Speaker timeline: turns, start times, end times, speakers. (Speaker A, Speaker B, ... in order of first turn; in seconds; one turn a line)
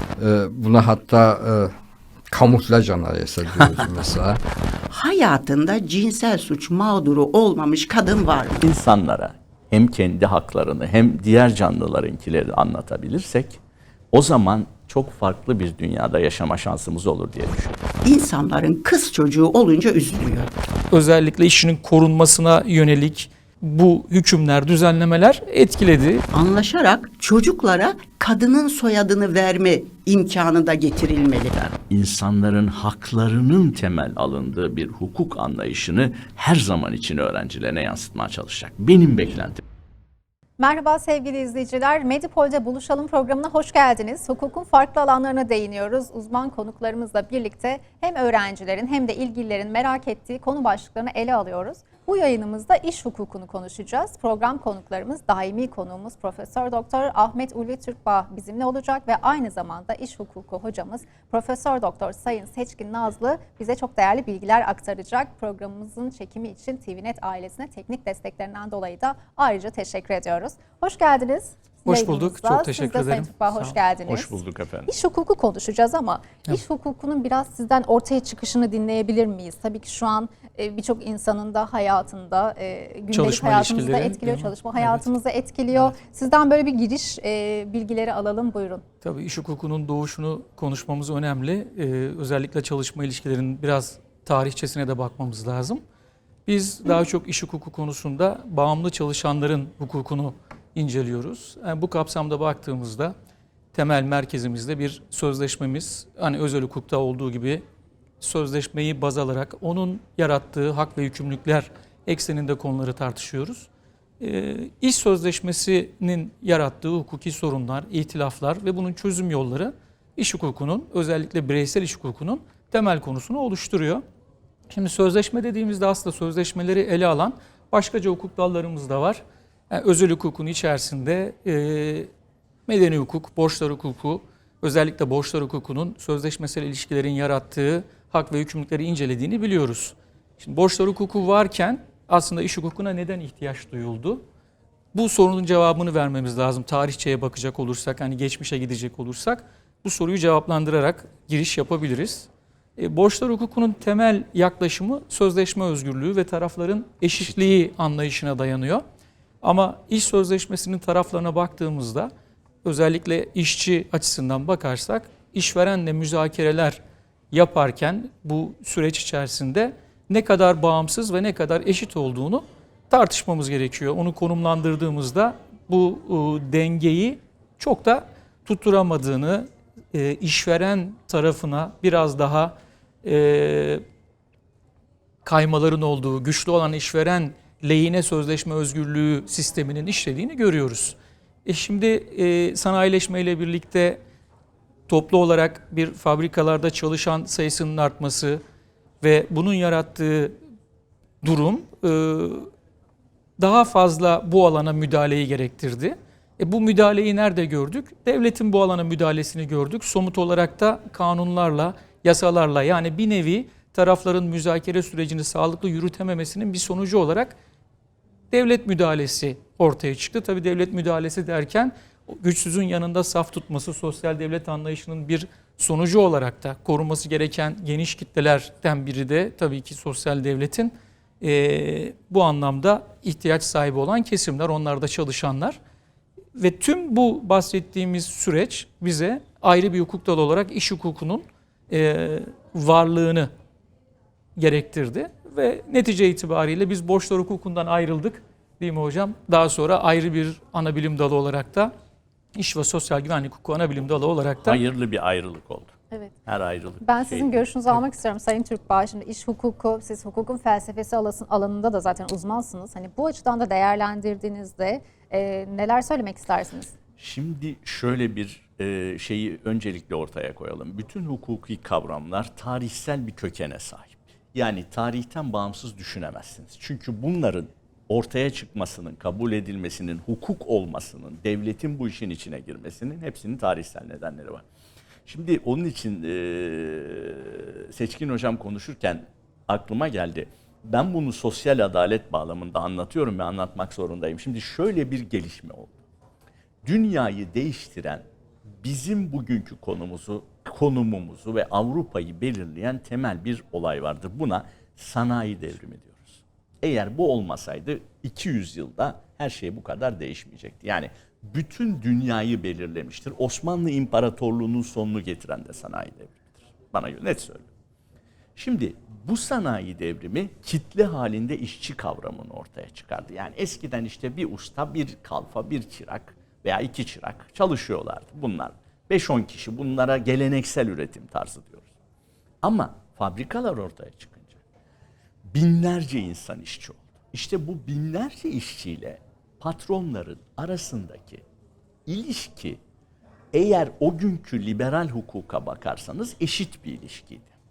Speaker A: 0.2-1.7
Speaker A: 2.3-4.4
Speaker B: 4.9-8.6
Speaker C: 8.6-13.6
Speaker C: 14.1-17.8
Speaker B: 18.1-20.5
Speaker D: 20.9-26.2
Speaker B: 26.3-31.6
Speaker C: 31.6-39.6
Speaker E: 40.6-74.3
Speaker D: 71.8-73.8
Speaker C: 74.1-74.9
Speaker E: 74.9-88.8
Speaker D: 83.1-85.1
Speaker D: 89.0-95.8
Speaker D: 96.5-103.1
Speaker D: 103.7-107.6
Speaker D: 108.2-113.7
Speaker D: 114.2-124.0
Speaker D: 124.7-132.1
Speaker D: 132.7-144.2
Speaker D: 144.9-158.8
Speaker C: 157.1-157.5
Speaker D: 159.4-162.1
Speaker D: 162.6-166.8
Speaker D: 167.3-183.8
Speaker D: 185.2-194.0
Speaker D: 194.9-198.4
Speaker D: 199.0-200.3
Speaker D: 201.2-202.5
Speaker D: 203.4-217.3
Speaker D: 218.3-235.6
Speaker D: 236.4-243.3
Speaker D: 244.4-251.7
Speaker D: 252.3-254.6
Speaker C: 254.4-257.4
Speaker E: 256.8-266.8
Speaker C: 267.0-284.4
Speaker C: 285.1-295.8
Speaker C: 296.6-298.0
Speaker C: 298.6-317.5
Speaker C: 318.4-331.7
Speaker C: 332.4-334.4
Speaker C: 335.3-341.2
Speaker C: 341.9-342.6
Speaker C: 343.3-347.3